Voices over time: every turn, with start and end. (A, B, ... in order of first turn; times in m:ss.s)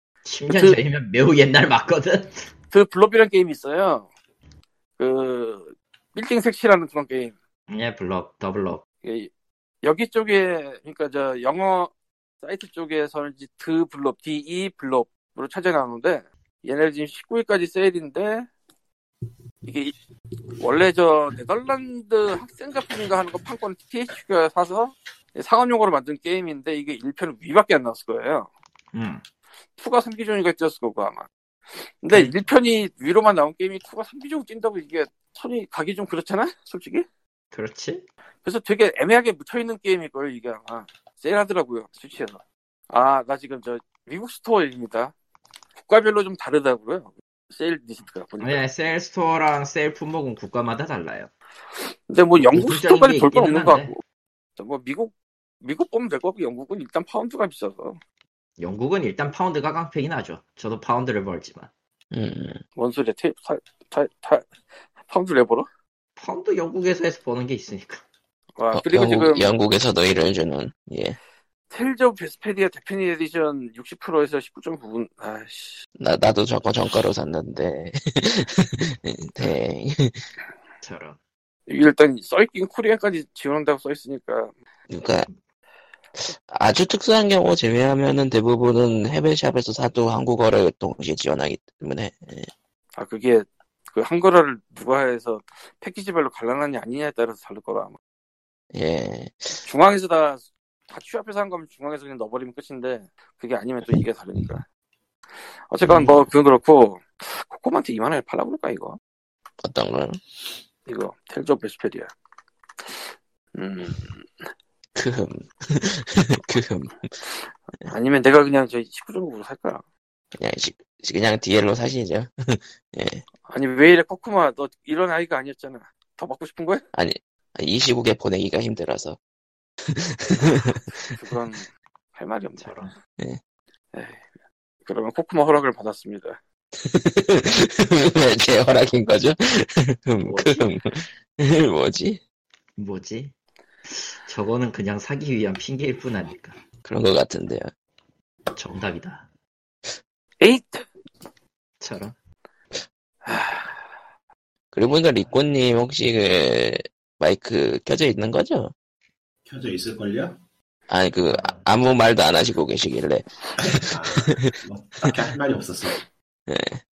0:00.2-0:02.5 A
0:00.5-0:00.8 B
0:02.7-0:04.1 B
0:05.0-0:07.4 B
0:07.7-0:08.8 A
0:09.0-0:09.3 B
0:09.8-0:11.9 B
0:12.4-0:18.5 B
0:19.6-0:20.0 B
0:20.6-0:28.5 B
0:28.9-0:29.2 A
0:29.8-0:37.1 B
0:32.1-0:32.4 A
0:37.5-0:38.0 A
0:38.4-0:45.1 B
0:45.8-0:48.6 B
0:48.4-0:51.3 A
0:52.1-0:54.0 B
0:52.4-0:53.9 A
0:54.6-0:58.0 B
0:58.6-1:01.7 A
1:02.1-1:02.6 C
1:02.8-1:04.5 B
1:05.1-1:05.7 B
1:06.2-1:08.0 A
1:08.6-1:09.5 B
1:08.7-1:11.2 C
1:11.7-1:15.8 B
1:16.0-1:20.2 C
1:20.8-1:21.2 A
1:21.7-1:24.5 B
1:24.9-1:25.3 C
1:26.2-1:32.5 C
1:33.0-1:38.0 B
1:38.7-1:39.6 C
1:39.6-1:44.6 B
1:45.7-1:49.0 B
1:49.6-1:50.2 C
1:50.9-1:52.1 B
1:53.6-1:54.4 B
1:55.0-1:57.1 C
1:57.9-1:59.8 B
2:00.4-2:03.2 C
2:03.5-2:06.8 B
2:06.9-2:09.2 C
2:09.9-2:11.1 C
2:11.1-2:12.9 B
2:12.6-2:12.9 A
2:13.9-2:14.2 B
2:14.9-2:16.4 B
2:16.8-2:22.2 C
2:20.2-2:20.7 A
2:22.8-2:23.3 A
2:23.9-2:26.6 A
2:26.8-2:27.7 C
2:28.5-2:29.3 A
2:30.4-2:30.9 B
2:31.8-2:32.2 A
2:33.2-2:33.8 B
2:34.7-2:38.7 C
2:39.5-2:40.4 D
2:40.9-2:44.6 C
2:43.6-2:46.0 D
2:46.5-2:46.8 C